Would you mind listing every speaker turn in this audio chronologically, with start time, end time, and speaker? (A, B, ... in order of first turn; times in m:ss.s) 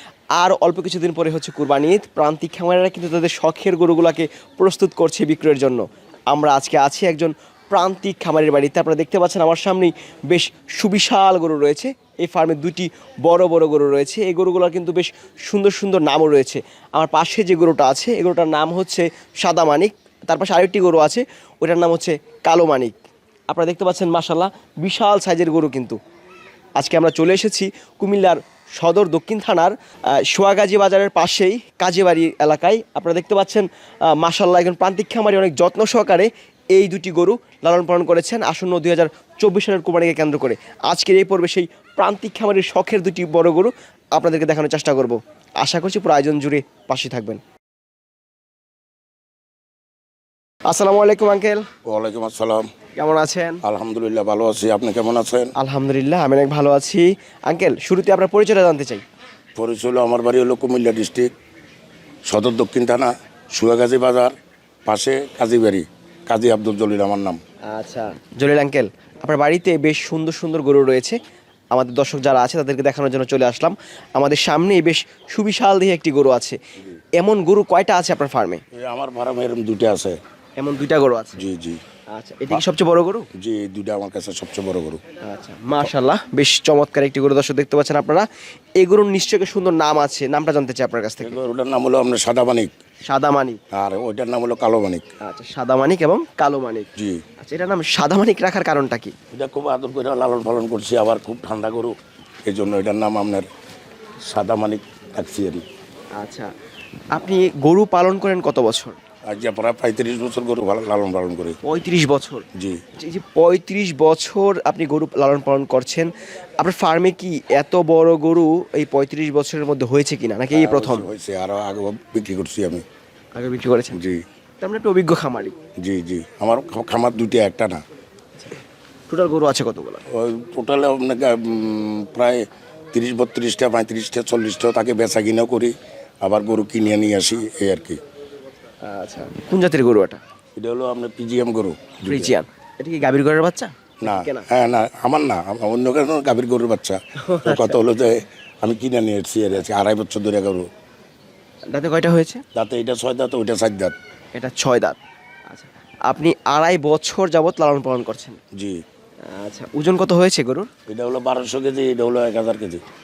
0:00.4-0:22.9 A
0:23.5-0:26.0 A
0:26.8-0:47.4 A
0:50.7-0:51.6 A
0:51.8-0:52.7 B
0:53.0-0:53.6 A
0:53.6-0:55.5 B
0:55.6-0:59.0 A
0:59.5-1:01.3 B
1:02.3-1:04.3 B
1:04.9-1:07.4 B
1:07.7-1:11.2 A
1:11.7-1:16.6 A
1:17.2-1:18.6 A
1:18.7-1:20.2 B
1:20.6-1:21.4 A
1:21.3-1:21.8 B
1:22.1-1:23.3 A
1:23.4-1:25.0 B
1:25.2-1:28.3 A
1:28.8-1:31.4 A
1:31.2-1:32.7 B
1:33.0-1:33.6 A
1:33.7-1:35.0 B
1:35.2-1:36.9 A
1:37.0-1:37.2 B
1:37.4-1:39.1 A
1:39.3-1:43.5 B
1:44.2-1:45.6 B
1:46.2-1:46.5 A
1:47.1-1:49.0 A
1:49.3-1:51.6 B
1:51.6-1:52.4 A
1:52.6-1:52.8 B
1:53.0-2:01.1 A
2:00.5-2:02.8 B
2:03.3-2:04.0 A
2:03.9-2:04.2 B
2:04.6-2:05.5 A
2:05.8-2:07.8 B
2:09.1-2:10.0 A
2:10.1-2:18.0 B
2:18.8-2:20.2 A
2:20.6-2:22.3 B
2:22.0-2:24.5 A
2:24.0-2:30.7 B
2:27.2-2:27.8 A
2:31.7-2:32.4 A
2:32.5-2:34.0 B
2:34.3-2:35.0 A
2:35.5-2:38.4 A
2:38.5-2:38.8 B
2:39.3-2:40.7 A
2:40.9-2:42.8 B